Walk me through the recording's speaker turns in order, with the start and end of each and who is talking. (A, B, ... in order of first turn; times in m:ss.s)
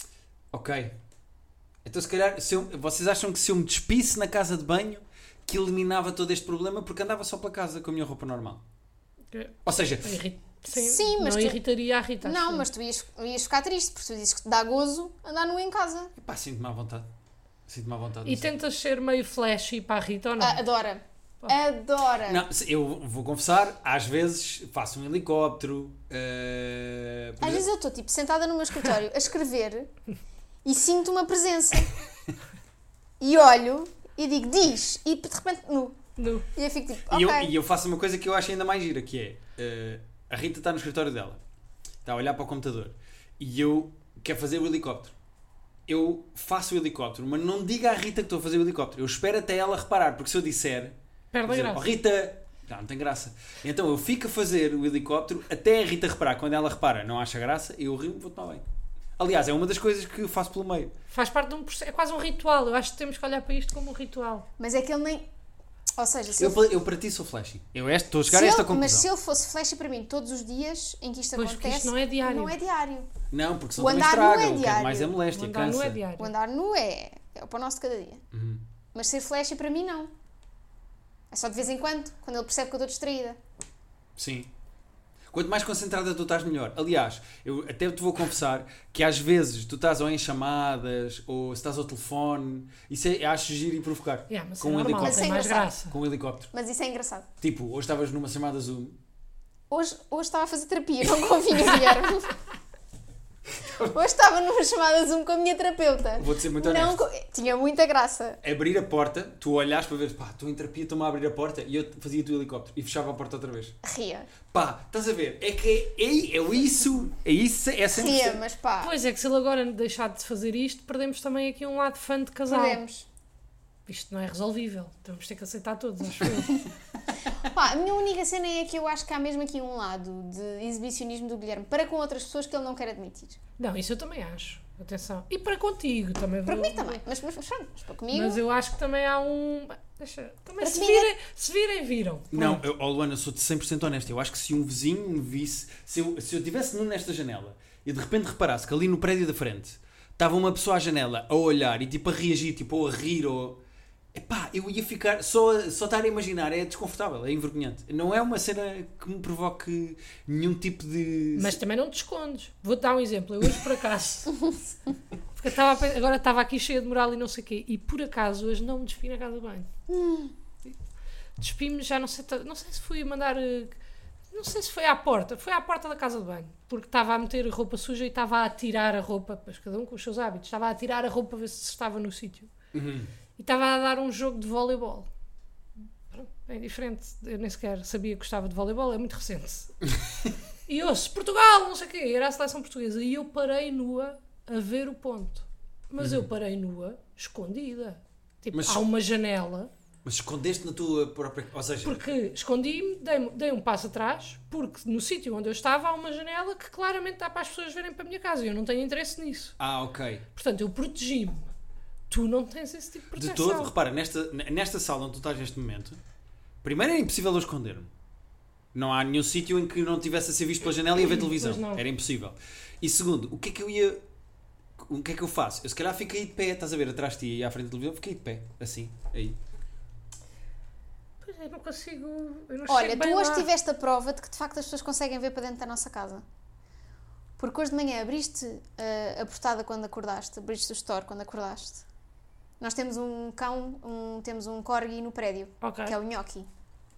0:00.5-0:01.0 A
0:01.9-0:08.6 A
0:09.3-0:12.7 B
0:09.6-0:10.2 A
0:10.7-0:11.6 C
0:12.2-0:16.1 C
0:16.2-0:17.1 A
0:17.7-0:18.5 A
0:18.2-0:20.6 B
0:20.4-0:22.5 C
0:22.3-0:27.6 A
0:27.4-0:29.9 C
0:30.6-0:31.9 C
0:33.2-0:36.0 C
0:36.2-0:36.5 B
0:36.6-0:37.5 C
0:37.1-0:41.4 A
0:42.0-0:45.1 A
0:45.9-0:51.0 A
0:51.3-0:51.8 B
0:51.5-0:58.6 A
0:59.2-1:00.9 A
1:01.1-1:04.5 B
1:04.6-1:05.3 C
1:06.0-1:06.6 C
1:06.4-1:09.1 A
1:08.3-1:13.1 C
1:11.4-1:12.6 B
1:13.3-1:16.0 A
1:13.8-1:15.2 C
1:15.3-1:16.3 B
1:16.2-1:18.2 C
1:18.3-1:18.6 A
1:18.9-1:20.1 C
1:21.3-1:23.4 C
1:24.2-1:24.5 A
1:25.3-1:35.3 A
1:34.3-1:35.9 B
1:35.0-1:35.7 C
1:35.9-1:36.5 A
1:36.5-1:37.3 C
1:37.4-1:39.0 A
1:39.7-1:42.3 C
1:43.6-1:43.9 A
1:43.7-1:48.4 C
1:46.2-1:47.0 A
1:48.4-1:53.8 A
1:53.8-1:54.3 C
1:54.5-1:58.4 A
1:57.9-1:58.9 C
1:58.8-2:02.8 B
2:02.5-2:03.1 C
2:03.9-2:06.6 B
2:07.4-2:13.4 C
2:13.6-2:17.0 B
2:16.4-2:18.4 C
2:18.1-2:22.6 B
2:20.6-2:21.1 C
2:22.3-2:33.6 A
2:34.1-2:41.6 A
2:41.4-2:44.5 B
2:45.4-2:49.7 B
2:49.9-2:50.3 C
2:51.4-2:53.8 B
2:54.3-3:02.5 B
3:02.7-3:03.1 A
3:03.4-3:05.1 B
3:06.1-3:09.8 B
3:09.9-3:10.3 A
3:10.7-3:19.7 B
3:16.0-3:16.3 A
3:18.5-3:18.8 A
3:20.0-3:22.1 A
3:21.8-3:29.6 B
3:29.6-3:30.2 A
3:30.4-3:31.5 B
3:32.1-3:33.7 B
3:33.1-3:36.0 A
3:36.6-3:37.9 A
3:38.7-3:44.0 A
3:41.0-3:41.8 B
3:44.8-3:49.4 A
3:51.2-3:53.5 B
3:52.7-3:56.2 C
3:57.4-4:01.8 C
4:02.6-4:06.5 C
4:05.6-4:06.0 B